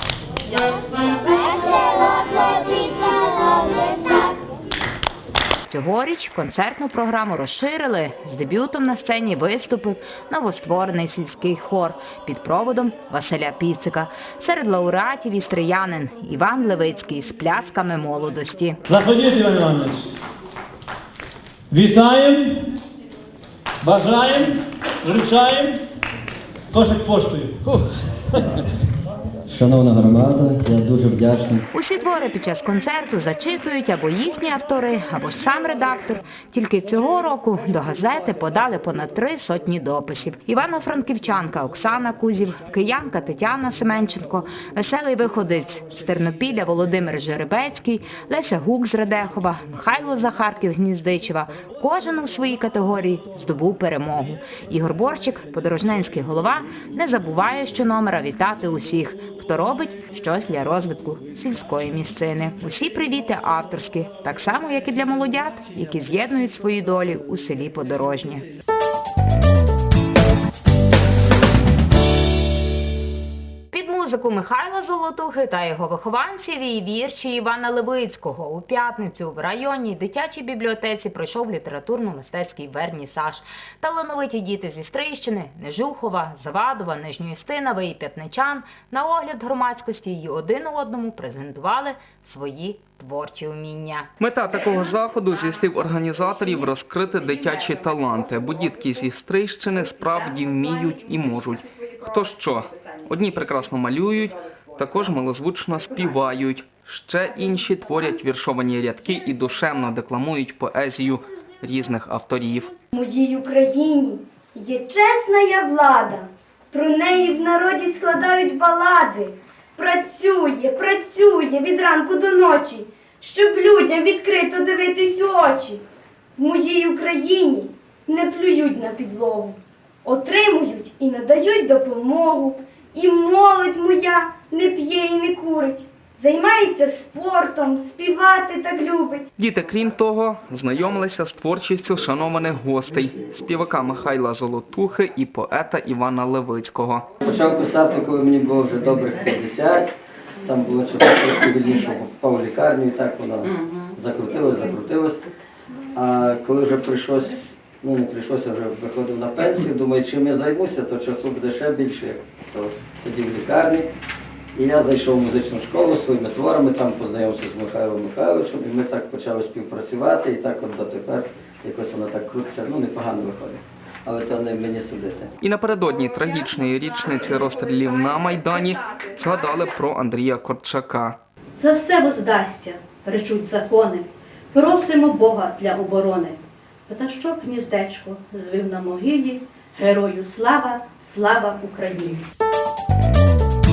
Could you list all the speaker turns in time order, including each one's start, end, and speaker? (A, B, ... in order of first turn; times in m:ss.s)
0:05.7-0:18.8 A
0:18.9-0:20.1 B
0:21.7-0:22.6 B
0:23.8-0:25.8 B
0:26.7-0:27.6 B
0:29.5-0:31.6 C
0:31.7-1:08.4 A
1:13.7-1:34.1 A
1:34.2-1:52.7 D
1:52.9-2:05.8 E
2:06.4-2:19.2 E
2:19.4-2:27.1 D
2:27.2-2:29.9 C
2:30.4-2:35.2 C
2:35.9-2:43.9 C
2:44.5-2:55.3 C
2:55.4-3:01.2 D
3:01.6-3:12.2 F